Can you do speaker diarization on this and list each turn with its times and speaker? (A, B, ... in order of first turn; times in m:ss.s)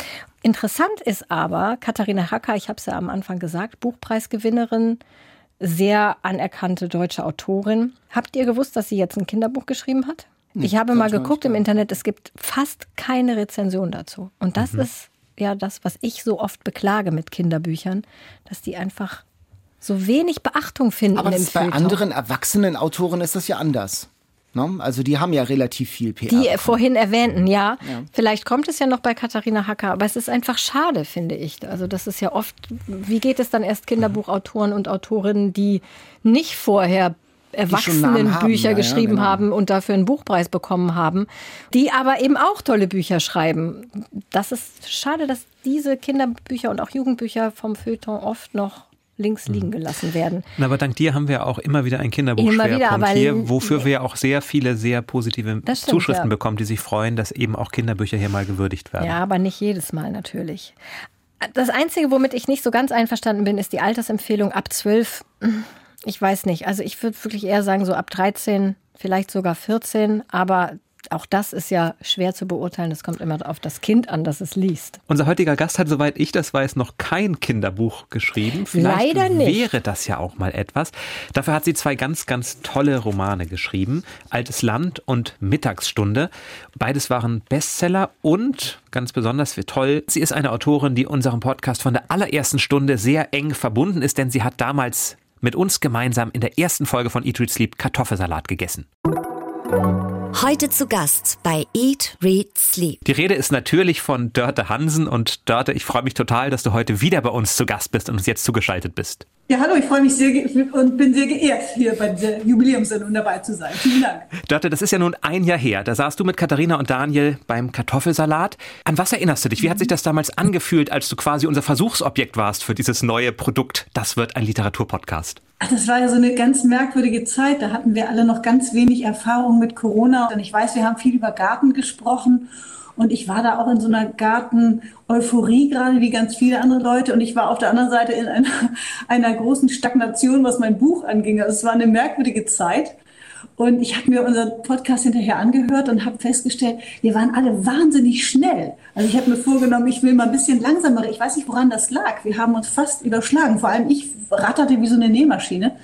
0:00.4-0:05.0 A
0:05.6-0:19.2 A
0:10.6-0:11.7 B
0:19.8-0:22.0 A
0:21.2-0:26.8 B
0:26.3-0:50.4 A
0:37.7-0:39.4 B
0:50.6-0:59.2 C
0:52.4-0:53.9 A
0:55.7-0:56.3 A
0:59.0-1:00.8 A
1:01.4-1:15.0 A
1:15.1-1:38.9 C
1:18.7-1:19.6 A
1:40.3-1:43.0 D
1:43.0-1:49.3 C
1:49.5-1:54.3 E
1:54.4-2:05.4 C
2:05.6-2:23.0 E
2:23.6-2:35.8 E